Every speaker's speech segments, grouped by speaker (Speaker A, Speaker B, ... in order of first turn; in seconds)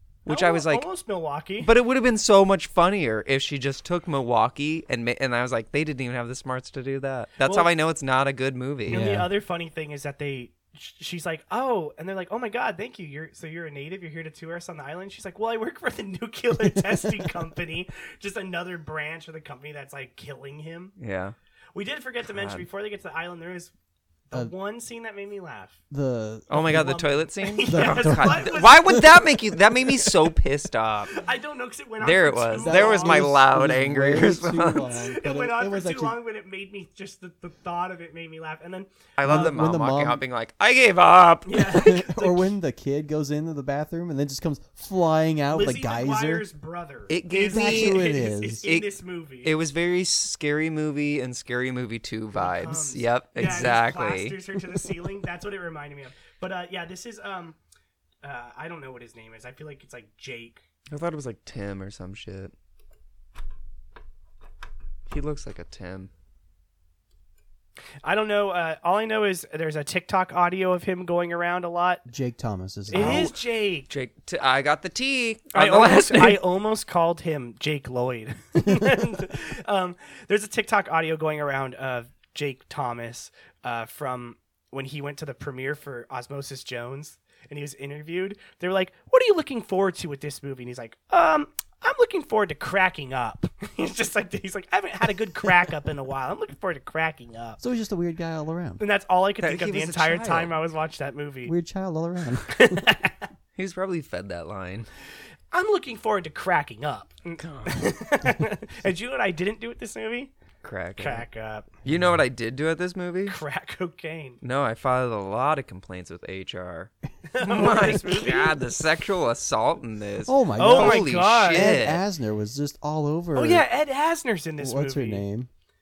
Speaker A: 0.2-0.8, 1.6-9.0, 21.0-21.3, 22.3-22.6, 26.5-31.2, 32.0-34.9, 39.2-41.9, 47.1-48.1, 48.6-48.9, 49.4-54.4, 60.9-62.5, 65.1-66.1, 72.9-73.3, 73.9-76.4, 99.4-100.5, 103.5-104.9, 107.4-107.9, 110.6-111.2, 111.8-113.4, 114.4-122.0
Speaker B: 0.3-1.7, 7.4-7.7, 8.9-20.9, 21.7-23.7, 24.3-25.7, 26.7-29.2, 31.1-33.3, 35.1-38.9, 41.5-42.5, 45.5-49.5, 52.3-57.5, 58.2-60.6, 68.0-72.0, 72.9-73.9, 75.5-97.6, 98.8-101.5, 102.5-103.3, 105.5-110.3, 111.0-111.7, 113.2-114.4, 117.3-118.5, 120.6-121.7, 123.3-125.2
Speaker C: 8.9-9.3, 16.6-17.3, 25.9-27.1, 27.7-29.2, 32.6-36.2, 39.2-40.2, 41.7-46.4, 47.4-48.6, 72.1-73.3, 97.6-98.8, 101.5-102.8, 120.2-123.6, 124.6-125.5